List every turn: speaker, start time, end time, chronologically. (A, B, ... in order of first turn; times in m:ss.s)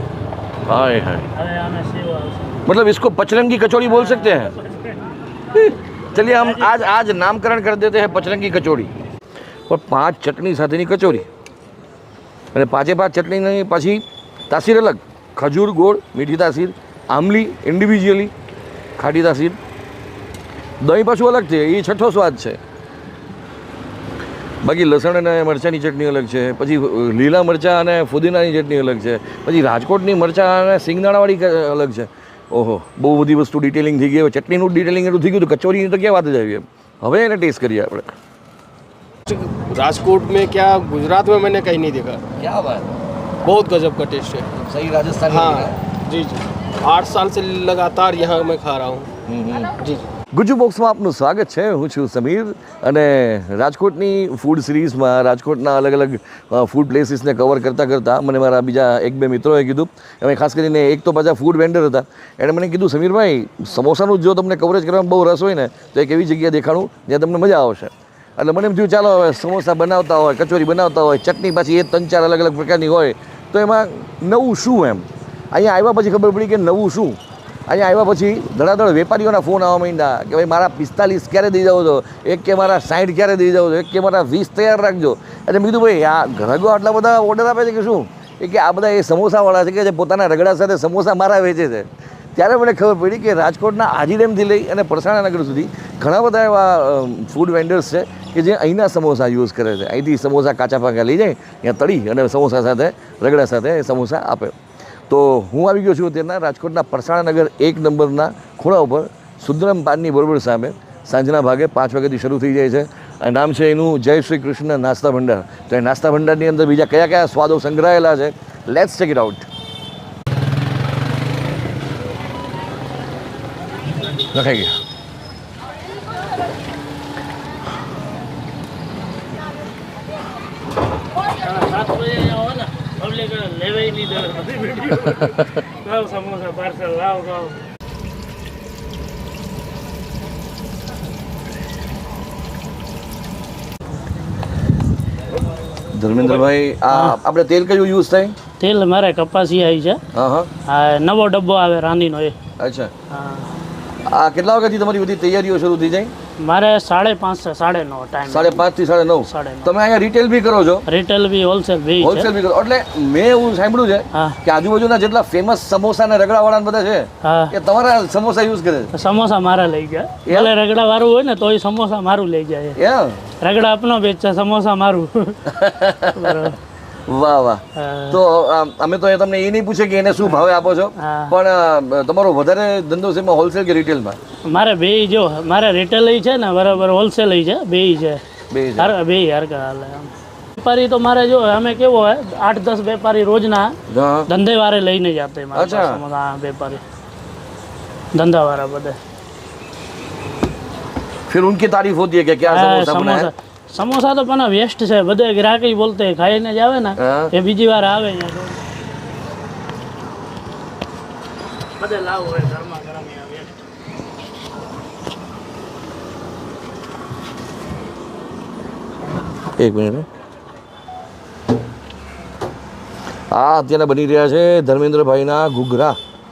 0:00.6-0:01.3 A
0:01.3-0:02.6 B
0:02.6-0:04.5 A
0:03.8-0:05.0 B
0:05.6-0:08.9 A
0:06.1-0:06.8 B
0:09.7-0:11.3 A
0:12.5-0:18.3 A
0:19.0-0:19.6 A
0:20.8-0:22.6 A
0:24.6-0:38.2 A
0:39.3-0:42.2 C
0:42.4-0:42.9 A
0:43.4-0:44.5 C
0:44.5-0:45.8 A
0:45.3-0:49.1 C
0:49.3-0:49.8 A
0:49.8-0:50.1 C
0:50.3-1:44.6 A
1:45.1-1:59.5 A
2:04.3-2:04.7 A
2:11.3-2:17.6 B
2:25.9-2:28.4 A
2:26.2-2:27.2 B
2:28.6-2:30.0 B
2:30.1-2:30.5 A
2:30.7-2:32.4 B
2:32.6-2:32.9 A
2:33.1-2:33.5 B
2:34.1-2:36.1 A
2:36.4-2:38.6 B
2:38.3-2:40.8 A
2:39.2-2:39.7 B
2:40.9-2:42.3 B
2:42.0-2:48.9 A
2:44.1-2:44.4 B
2:47.2-2:47.5 B
2:48.9-2:52.8 B
2:52.8-2:53.3 A
2:53.4-2:55.5 B
2:55.4-2:56.6 A
2:56.1-2:56.6 B
2:57.1-3:04.2 A
2:57.8-2:58.2 B
3:01.0-3:01.4 B
3:04.5-3:08.2 B
3:08.5-3:09.0 A
3:08.8-3:16.8 B
3:13.9-3:14.3 A
3:15.5-3:16.0 A
3:18.2-3:19.0 B
3:21.3-3:23.3 A
3:22.4-3:28.7 B
3:27.0-3:27.3 A
3:31.8-3:33.7 B
3:39.6-3:40.1 A
3:43.3-3:46.0 A